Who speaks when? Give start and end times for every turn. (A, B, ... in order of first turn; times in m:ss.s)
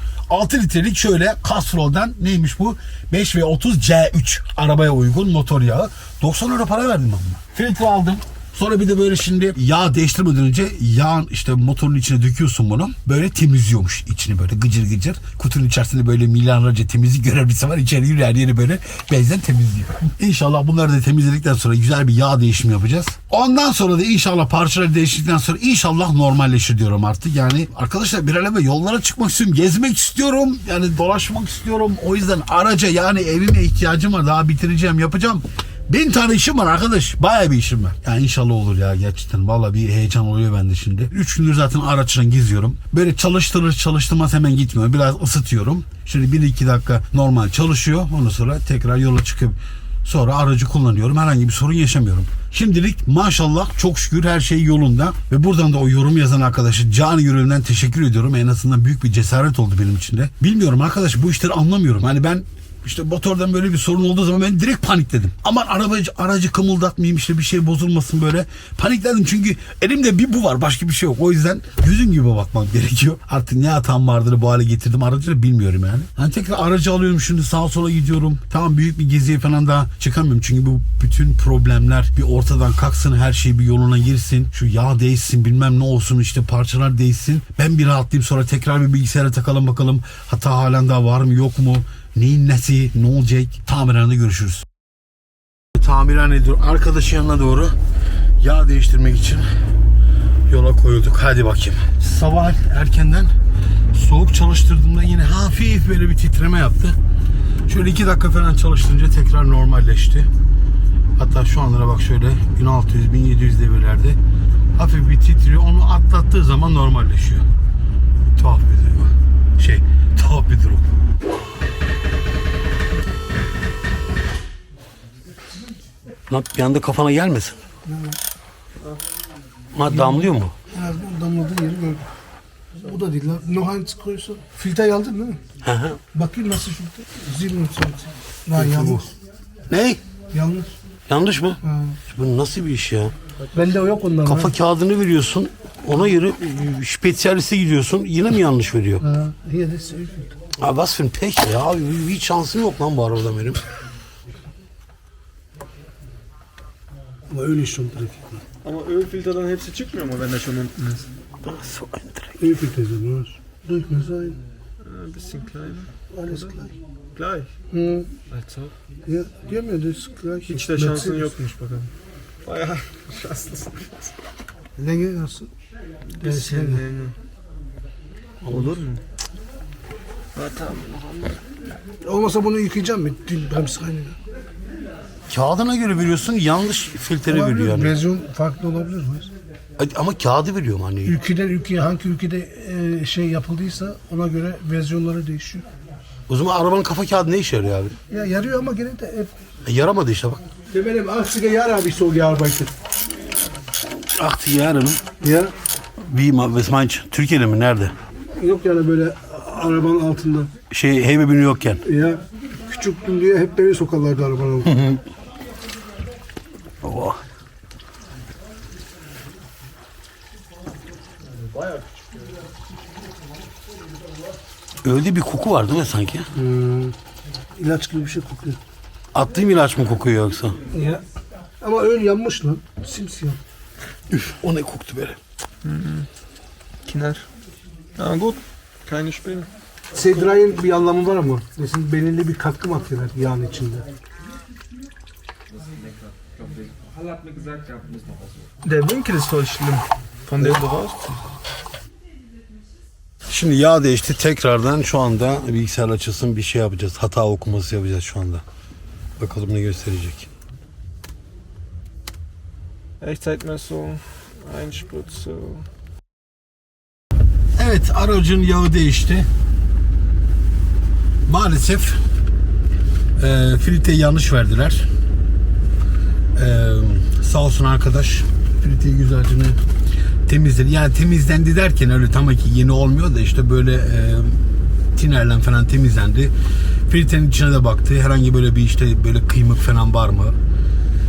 0:00.3-1:34.6 A
1:35.8-1:37.7 A
1:38.4-1:39.4 A
1:40.5-1:43.3 A
1:43.9-1:47.0 A
1:47.6-1:50.3 A
1:51.2-1:54.2 A
1:54.8-1:57.4 A
1:58.4-2:00.9 A
2:06.3-2:07.6 A
2:07.8-2:08.2 B
2:09.7-2:10.5 A
2:10.0-2:12.1 B
2:12.8-2:15.4 B
2:15.6-2:16.0 A
2:16.1-2:19.1 B
2:18.5-2:19.1 A
2:19.7-2:20.0 A
2:20.3-2:20.7 B
2:21.1-2:23.1 A
2:21.6-2:22.0 B
2:23.5-2:24.5 B
2:24.2-2:29.1 A
2:29.0-2:30.3 B
2:30.6-2:33.6 A
2:37.3-2:38.4 B
2:38.6-2:41.1 C
2:41.4-2:42.4 A
2:42.4-2:44.4 B
2:44.8-2:47.5 C
2:46.1-2:46.7 B
2:47.7-2:48.1 B
2:48.3-2:48.7 C
2:49.0-2:51.3 B
2:50.4-2:51.9 C
2:52.4-2:54.1 C
2:54.8-2:55.5 B
2:56.1-2:57.2 C
2:56.2-2:56.8 B
2:58.4-2:58.8 A
2:58.5-2:59.0 C
3:00.3-3:01.4 C
3:02.0-3:04.2 B
3:05.3-3:08.0 A
3:07.3-3:09.3 B
3:09.8-3:11.2 A
3:11.0-3:15.6 B
3:16.3-3:18.0 A
3:18.1-3:19.3 B
3:19.6-3:20.4 A
3:20.7-3:22.7 B
3:23.9-3:25.0 A
3:25.2-3:25.5 B
3:26.0-3:27.9 A
3:28.4-3:30.5 B
3:30.7-3:31.8 A
3:31.8-3:34.8 B
3:34.7-3:35.0 A
3:36.8-3:37.2 A
3:44.8-3:46.3 A
3:46.3-3:46.9 B
3:47.6-3:48.6 B
3:49.1-3:50.6 A
3:50.7-3:51.0 B
3:51.6-3:53.4 B
3:54.1-3:55.2 A
3:55.6-3:56.1 C
3:56.8-3:57.3 C
3:58.0-3:59.5 C
3:59.9-4:03.8 B
4:07.2-4:11.2 C
4:13.3-4:18.4 A
4:19.2-4:20.3 A
4:23.0-4:25.6 C
4:27.6-4:29.3 A
4:31.3-4:32.0 A
4:33.2-4:34.9 A
4:36.3-4:39.6 A
4:40.3-4:46.3 A
4:46.9-4:50.4 A